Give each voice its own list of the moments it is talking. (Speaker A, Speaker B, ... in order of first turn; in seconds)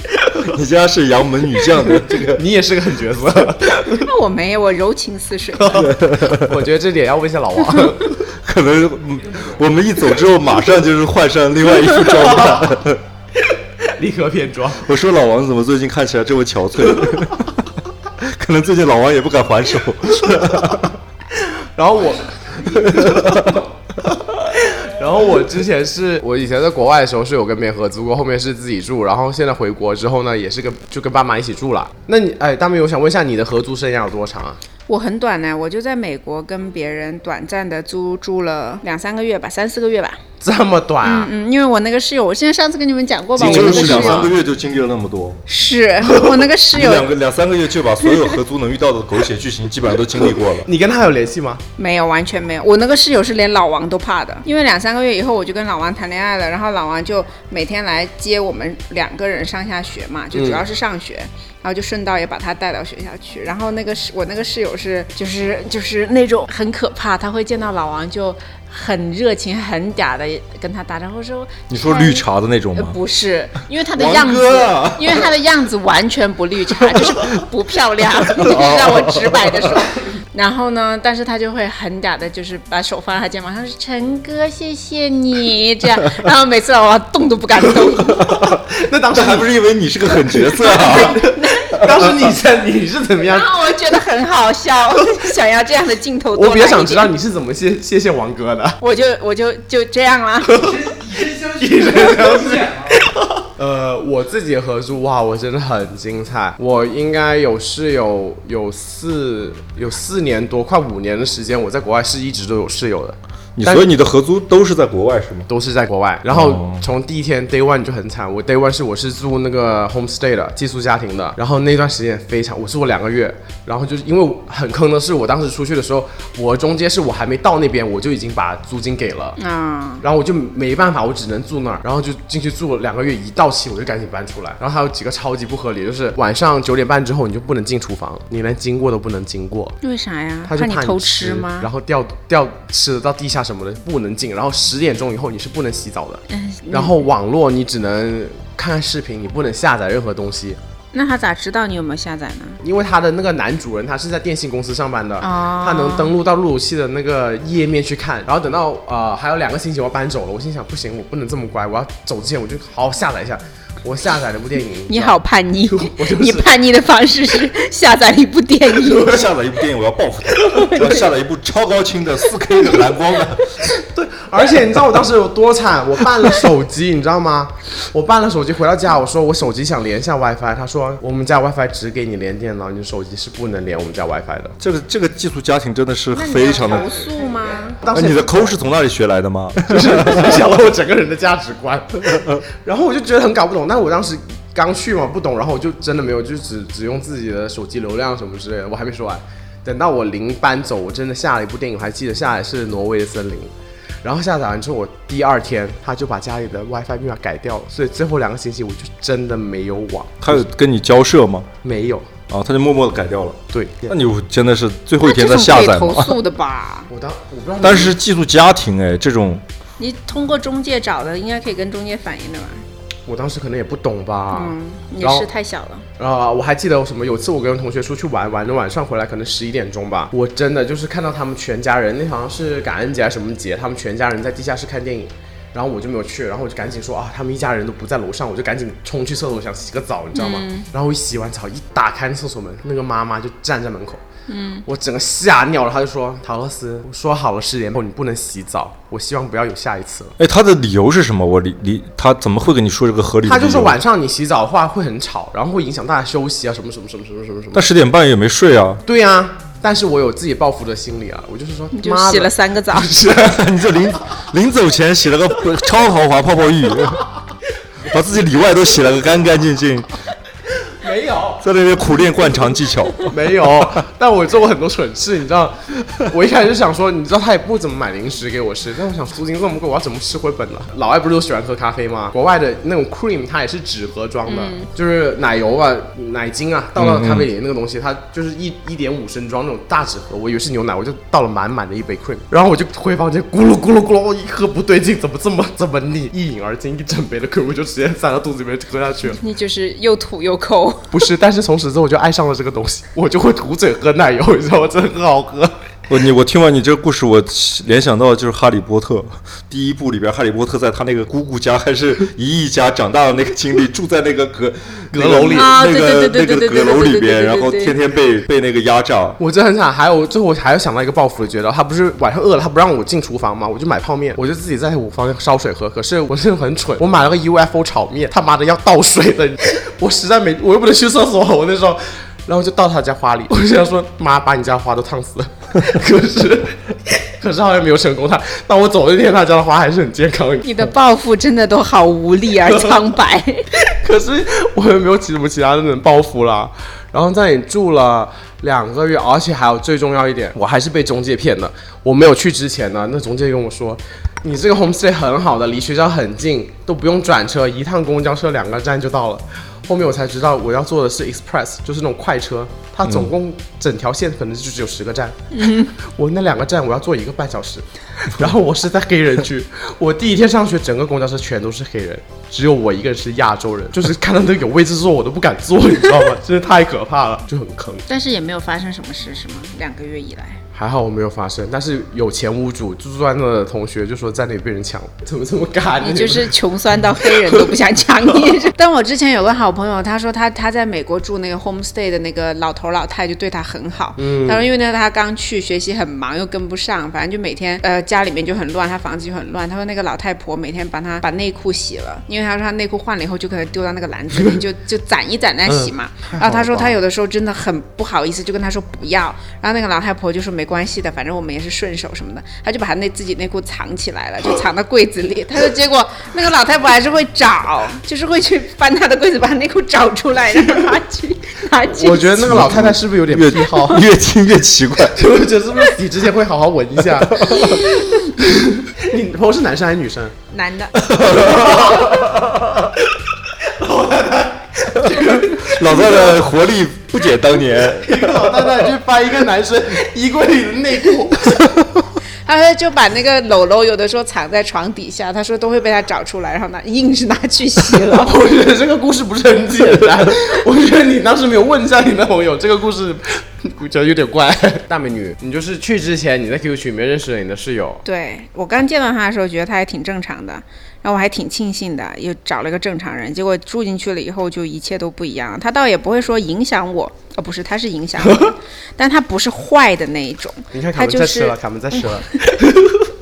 Speaker A: 0.4-2.5, 5.8-6.6, 8.3-13.0, 14.8-20.9, 22.7-23.6, 43.4-45.4, 46.7-50.7, 71.7-73.0, 74.0-75.3, 76.9-77.4, 78.2-79.7, 88.2-91.3, 91.8-92.1, 113.6-115.5, 116.3-116.8, 169.0-173.6, 184.6-187.0, 187.9-190.4, 210.2-211.5, 212.3-213.4, 213.9-216.2, 217.6-219.4, 250.2-253.8, 257.5-258.8, 263.0-267.1, 267.9-269.9, 271.4-273.7, 286.8-287.3, 305.9-319.2, 422.2-425.0, 427.2-427.5, 430.8-432.1, 434.9-438.6
Speaker B: 2.1-4.1, 5.6-8.2, 11.9-12.7, 13.4-14.8, 21.4-23.6, 24.5-34.6, 40.4-41.3, 43.4-44.3, 50.6-51.6, 60.3-60.6, 88.3-89.5, 90.4-93.6, 96.3-98.8, 100.5-113.9, 115.5-129.4, 130.0-139.8, 140.5-150.6, 152.6-165.2, 165.7-166.5, 168.7-169.3, 173.7-184.6, 187.8-188.6, 189.7-203.5, 204.0-210.4, 211.6-212.1, 213.5-213.9, 216.9-217.9, 223.1-225.3, 226.0-244.0, 244.7-250.2, 253.3-257.7, 258.9-263.4, 270.8-271.4, 273.1-299.2, 300.9-305.6, 314.9-315.5, 319.2-340.6, 342.5-342.8, 343.6-377.9, 380.5-386.4, 387.0-387.5, 394.0-394.5, 405.5-406.8, 421.6-423.9, 424.9-430.2, 431.1-432.2, 433.4-436.2, 437.8-441.5, 447.9-457.8, 470.5-472.9
Speaker C: 4.0-5.9, 34.9-40.2, 41.0-44.3, 45.5-47.1, 51.8-72.2, 72.8-88.2, 90.6-91.8, 93.2-97.1, 98.8-100.8, 129.4-130.0, 139.8-141.7, 146.3-147.0, 150.9-152.6, 155.2-156.1, 164.9-169.1, 170.5-171.1, 186.1-187.8, 215.0-216.9, 219.8-222.6, 224.3-225.8, 240.1-240.7, 244.3-244.7, 261.7-262.9, 284.3-284.7, 299.2-301.0, 315.3-317.8, 340.4-343.5, 365.3-365.7, 377.9-380.4, 385.8-422.5, 427.4-427.9, 430.3-430.8, 442.3-448.1, 457.9-471.4